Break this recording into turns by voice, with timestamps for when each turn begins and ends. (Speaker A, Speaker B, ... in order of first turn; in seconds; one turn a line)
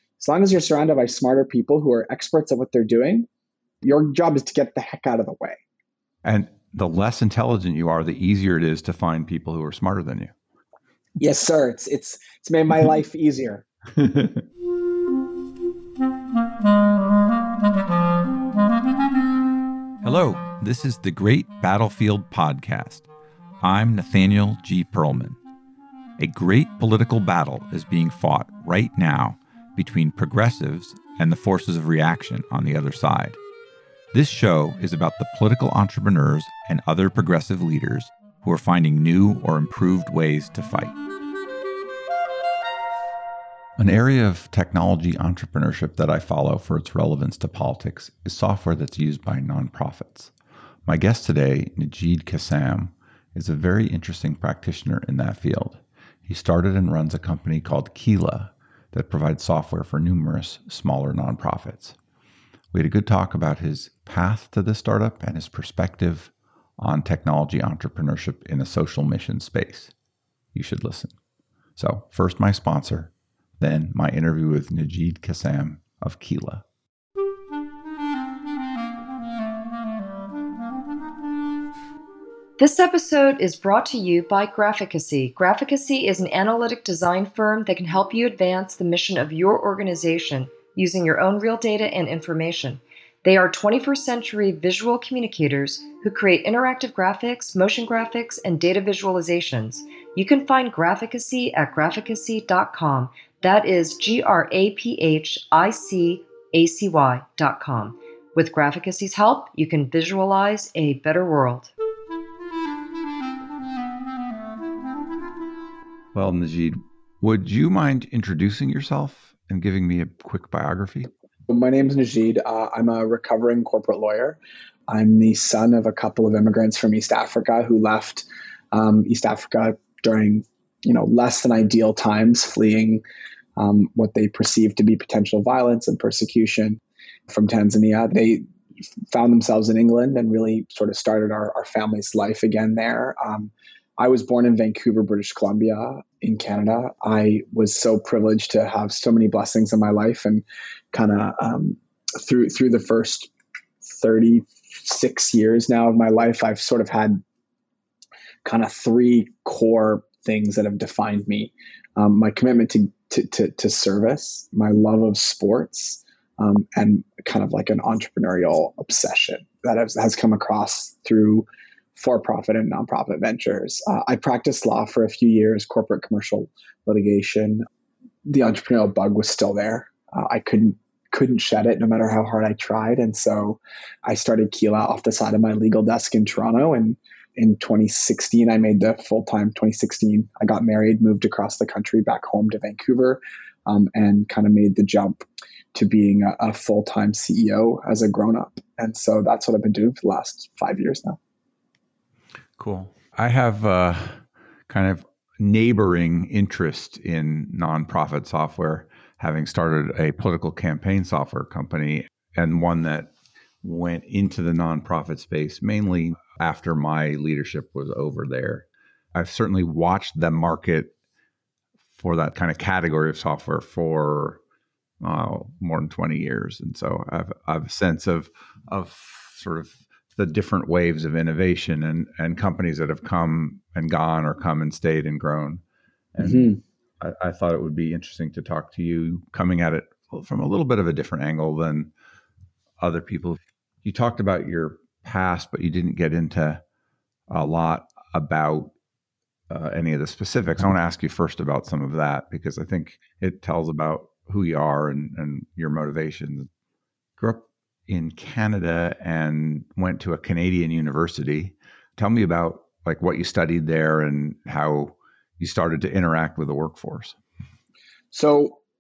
Speaker A: 0.2-3.3
Speaker A: 3.8-5.6
Speaker B: 6.2-10.3
Speaker A: 11.2-13.7
Speaker B: 14.0-14.4
Speaker B: 20.0-23.1
Speaker B: 23.6-25.4
Speaker B: 26.2-33.4
Speaker B: 34.1-40.9
Speaker B: 43.8-50.3
Speaker B: 50.9-62.0
Speaker B: 62.7-69.9
Speaker B: 70.5-71.1
Speaker B: 71.8-76.6
Speaker C: 82.6-111.7
Speaker B: 116.1-121.1
Speaker A: 121.5-133.0
Speaker A: 133.6-138.4
Speaker A: 139.1-153.3
Speaker A: 153.8-157.2
Speaker A: 158.4-177.6
Speaker A: 178.2-201.2
Speaker B: 202.6-213.1
Speaker B: 213.6-220.9
Speaker B: 222.0-224.4
Speaker B: 225.0-235.6
Speaker B: 236.1-241.9
Speaker A: 236.2-236.6
Speaker B: 242.8-246.6
Speaker B: 247.3-248.7
Speaker B: 249.5-256.5
Speaker B: 257.2-267.1
Speaker A: 268.1-268.6